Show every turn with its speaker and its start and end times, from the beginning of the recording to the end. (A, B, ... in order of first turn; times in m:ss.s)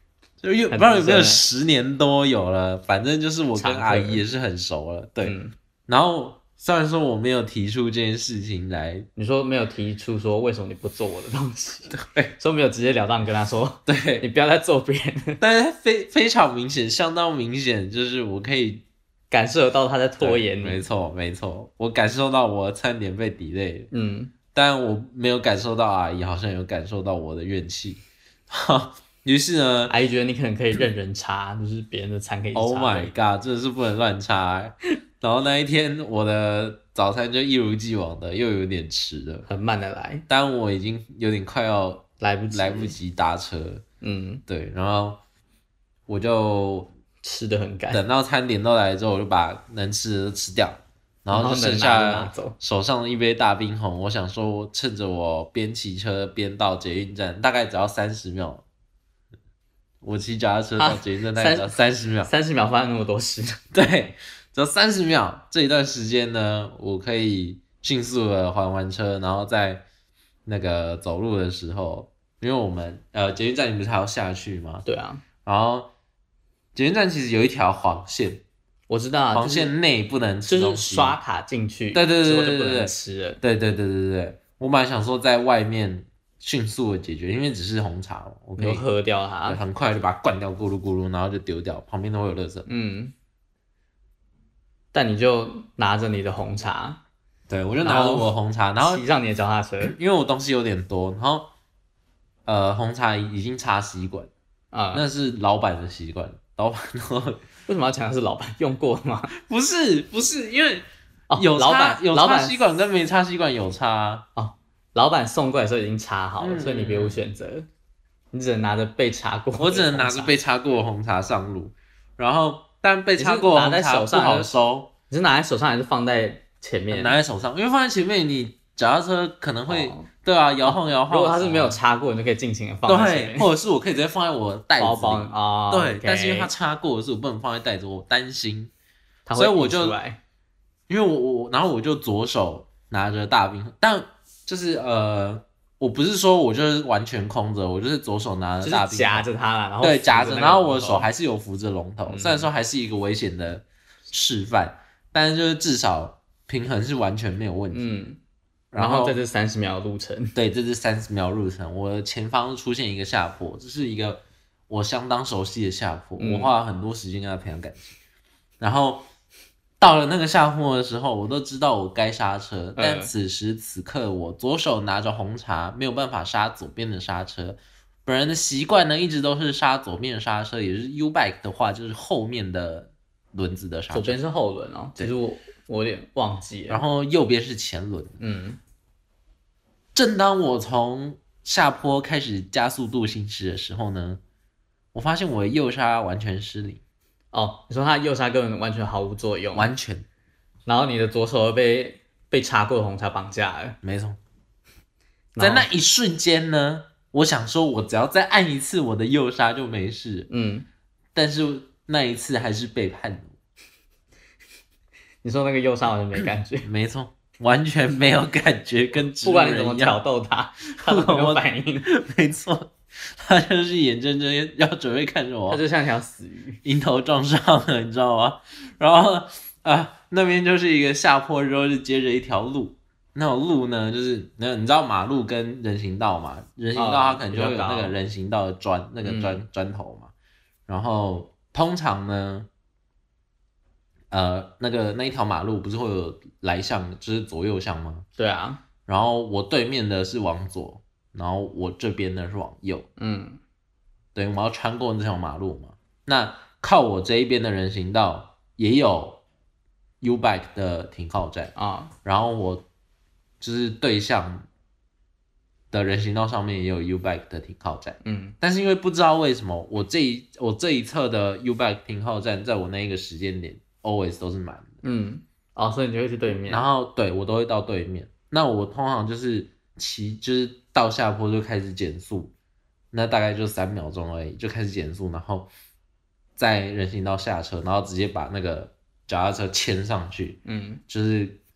0:00.4-0:05.3 A
0:00.7-0:01.4 B
0:03.5-0:04.2 B
0:05.2-0:05.5 B
0:05.9-0:09.1 A
0:09.2-0:15.4 B
0:11.9-0:12.4 A
0:13.8-0:14.2 A
0:15.4-0:18.8 A
0:19.3-0:20.8 B
0:20.2-0:23.9 A
0:23.9-0:24.3 B
0:24.5-0:29.9 A
0:29.9-0:33.1 B
0:32.5-0:39.5 A
0:39.4-0:40.2 B
0:40.3-0:43.8 A
0:42.2-0:43.0 B
0:44.0-0:44.4 B
0:44.5-0:45.2 A
0:46.1-0:46.9 A
0:47.2-0:48.0 B
0:47.9-0:58.6 A
0:51.3-0:52.6 B
1:00.0-1:02.3 A
1:00.8-1:03.6 B
1:03.7-1:09.8 A
1:10.4-1:14.8 A
1:14.8-1:15.2 B
1:15.4-1:15.9 A
1:16.7-1:18.4 A
1:18.9-1:19.7 B
1:19.3-1:21.2 A
1:20.5-1:23.4 B
1:21.9-1:28.8 A
1:28.6-1:29.6 B
1:29.4-1:32.7 A
1:32.6-1:33.1 B
1:34.9-1:37.0 B
1:37.5-1:39.0 A
1:37.8-1:39.9 B
1:39.8-1:41.5 A
1:42.4-1:44.3 A
1:44.7-1:45.0 B
1:44.9-1:47.4 A
1:47.7-1:49.3 B
1:49.3-1:54.2 A
1:51.3-1:52.6 B
1:54.4-1:57.7 B
1:56.4-1:57.2 A
1:58.3-2:00.3 B
1:59.6-2:04.9 A
2:03.2-2:04.6 B
2:05.1-2:07.2 B
2:06.9-2:11.8 A
2:09.7-2:10.1 B
2:10.6-2:13.5 B
2:12.9-2:18.7 A
2:14.8-2:16.5 B
2:19.2-2:20.2 B
2:19.3-2:20.0 A
2:20.9-2:29.2 A
2:28.6-2:31.1 B
2:29.8-2:38.0 A
2:32.1-2:32.5 B
2:37.7-2:38.2 B
2:38.7-2:39.2 A
2:38.8-2:40.4 B
2:40.3-2:48.0 A
2:46.2-2:46.5 B
2:48.6-2:49.1 A
2:49.8-3:04.2 A
2:52.8-2:53.1 B
3:03.9-3:06.8 B
3:06.7-3:08.2 A
3:08.2-3:08.6 B
3:09.9-3:14.2 A
3:14.9-3:16.8 A
3:17.3-3:19.7 B
3:19.5-3:20.0 A
3:20.6-3:23.8 B
3:23.8-3:24.2 A
3:25.3-3:25.7 B
3:25.4-3:30.3 A
3:30.3-3:30.6 B
3:31.1-3:33.4 A
3:35.2-3:36.7 B
3:36.6-3:40.0 A
3:39.0-3:41.9 B
3:40.8-3:45.6 A
3:45.5-3:46.6 B
3:46.6-4:00.1 A
3:56.7-3:58.0 B
3:59.0-3:59.4 B
4:00.7-4:02.5 A
4:04.1-4:08.0 A
4:08.2-4:08.6 B
4:08.8-4:12.9 A
4:13.0-4:13.4 B
4:14.1-4:19.2 A
4:20.0-4:21.5 A
4:21.6-4:21.9 B
4:22.0-4:22.6 A
4:23.4-4:24.5 A
4:25.7-4:34.8 A
4:28.0-4:28.4 B
4:34.8-4:36.6 B
4:36.5-4:42.3 A
4:42.9-4:45.5 A
4:46.4-4:51.4 A
4:50.4-4:50.8 B